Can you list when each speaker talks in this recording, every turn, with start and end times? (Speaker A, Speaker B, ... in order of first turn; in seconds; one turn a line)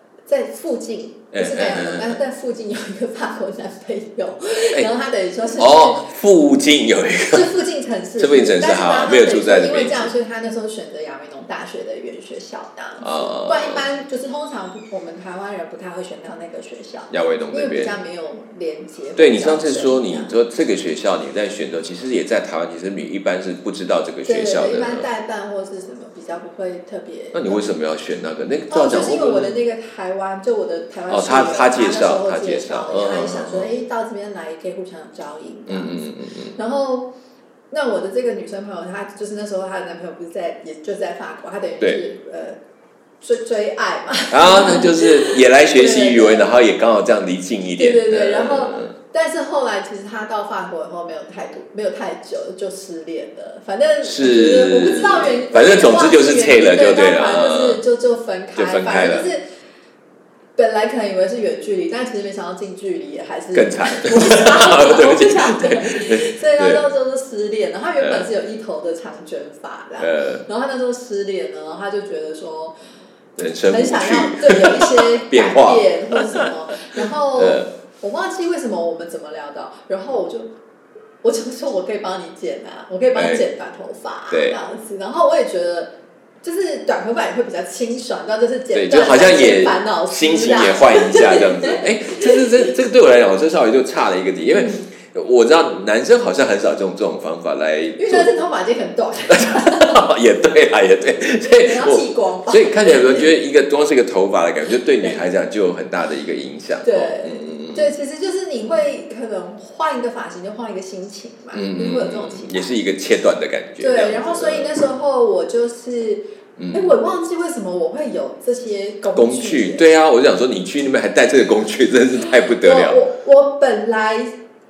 Speaker A: 0.3-6.1
Speaker B: 1.3-2.2
Speaker B: 5.6-7.5
Speaker A: 7.3-20.3
Speaker B: 8.2-10.1
Speaker B: 13.0-13.8
Speaker B: 17.1-17.9
Speaker B: 19.2-25.1
Speaker A: 24.3-27.6
Speaker B: 27.3-29.6
Speaker A: 28.7-36.0
Speaker B: 31.1-33.7
Speaker B: 35.7-36.6
Speaker A: 36.5-37.1
Speaker A: 37.7-42.6
Speaker A: 43.2-46.6
Speaker B: 44.3-48.9
Speaker A: 47.8-59.4
Speaker B: 54.0-57.8
Speaker B: 58.6-59.3
Speaker A: 60.6-72.8
Speaker B: 63.5-66.8
Speaker B: 68.0-68.3
Speaker B: 70.0-70.4
Speaker B: 73.4-77.7
Speaker A: 73.5-80.5
Speaker A: 81.2-85.9
Speaker B: 83.2-83.4
Speaker B: 84.3-84.6
Speaker A: 86.4-92.7
Speaker B: 88.7-98.3
Speaker A: 94.5-94.8
Speaker A: 98.0-100.0
Speaker B: 99.3-107.9
Speaker A: 101.5-103.3
Speaker A: 106.8-112.8
Speaker B: 111.5-114.8
Speaker A: 113.8-119.9
Speaker B: 116.6-116.9
Speaker B: 119.2-123.0
Speaker A: 122.5-124.3